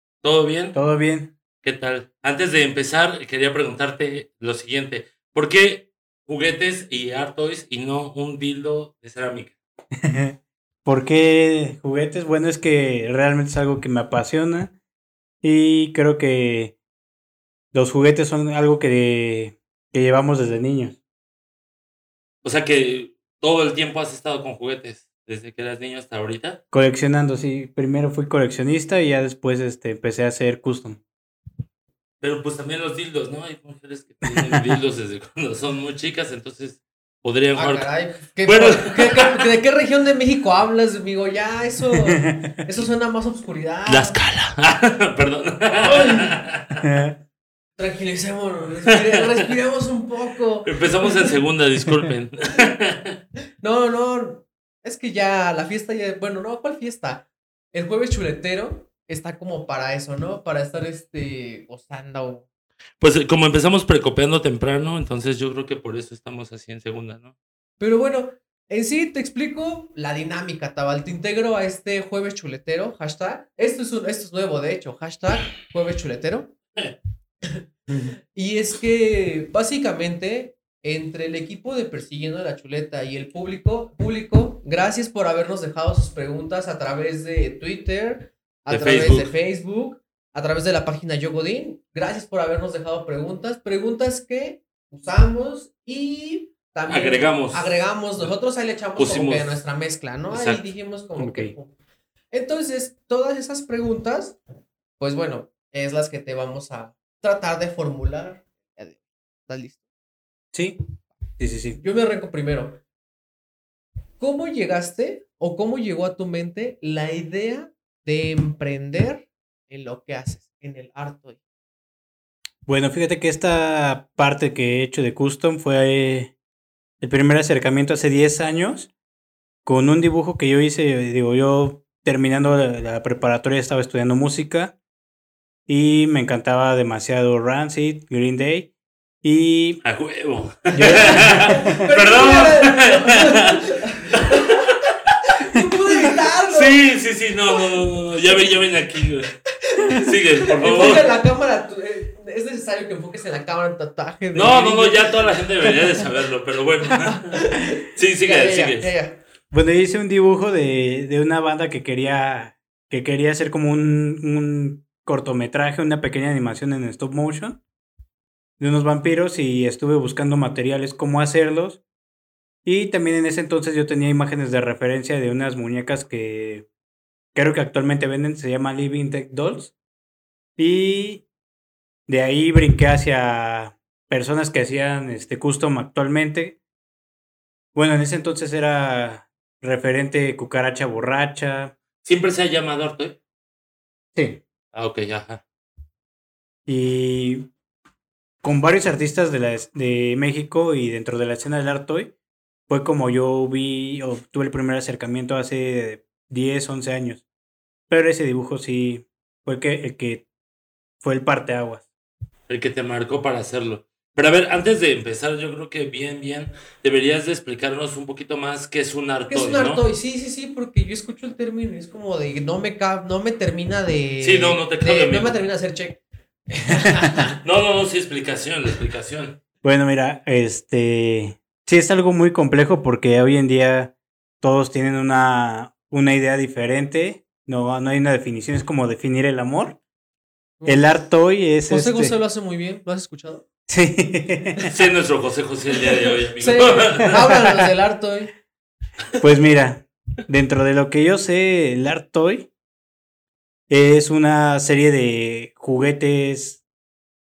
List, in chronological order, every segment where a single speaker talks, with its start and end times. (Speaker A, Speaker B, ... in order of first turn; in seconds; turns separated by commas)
Speaker A: 0.2-0.8, Speaker B: 0.7-1.3, Speaker A: 1.6-9.6, Speaker B: 10.0-14.8, Speaker B: 15.4-16.8, Speaker B: 17.7-21.0, Speaker A: 22.4-26.6, Speaker B: 26.7-31.0, Speaker A: 32.2-37.9, Speaker C: 37.5-44.2, Speaker A: 38.4-39.4, Speaker B: 42.2-42.6, Speaker A: 43.9-46.8, Speaker C: 45.8-46.3, Speaker B: 46.8-47.2, Speaker C: 47.8-51.3, Speaker A: 48.9-49.2, Speaker A: 50.6-53.2, Speaker C: 53.6-62.5, Speaker A: 63.0-67.3, Speaker C: 67.8-76.5, Speaker C: 78.3-101.7, Speaker A: 88.7-89.3, Speaker A: 96.9-98.3, Speaker A: 99.0-99.6, Speaker A: 100.3-100.6, Speaker B: 101.2-101.5, Speaker C: 102.3-104.4, Speaker C: 105.0-109.8, Speaker B: 110.5-110.8, Speaker B: 111.4-111.8, Speaker C: 111.8-112.8, Speaker C: 114.2-121.4, Speaker B: 122.7-126.3, Speaker B: 127.0-128.9, Speaker B: 129.7-134.8, Speaker B: 135.7-138.7, Speaker B: 139.2-139.8, Speaker A: 139.8-145.2, Speaker B: 140.7-141.8, Speaker C: 141.0-144.7, Speaker C: 145.4-146.8, Speaker A: 146.5-149.3, Speaker C: 149.6-155.7, Speaker A: 149.9-151.1, Speaker A: 154.3-157.3, Speaker C: 157.0-159.2, Speaker A: 157.9-158.9, Speaker B: 159.5-167.6, Speaker B: 168.6-171.8, Speaker B: 172.7-176.7, Speaker B: 177.3-179.7, Speaker B: 180.6-181.3, Speaker B: 182.1-186.6, Speaker B: 187.7-191.7, Speaker A: 192.0-193.2, Speaker B: 194.2-194.4, Speaker A: 194.7-195.4, Speaker B: 196.7-197.5, Speaker B: 198.4-202.1, Speaker B: 202.7-207.2, Speaker B: 207.9-210.3, Speaker B: 211.0-211.9, Speaker A: 212.5-219.8, Speaker C: 219.3-227.3, Speaker A: 224.2-225.4, Speaker A: 227.4-229.4, Speaker B: 229.6-239.8, Speaker B: 240.7-242.2, Speaker C: 241.7-243.4, Speaker B: 243.7-244.7, Speaker A: 244.7-247.2, Speaker C: 246.4-248.3, Speaker B: 247.3-247.7, Speaker B: 249.2-252.5, Speaker B: 253.7-256.6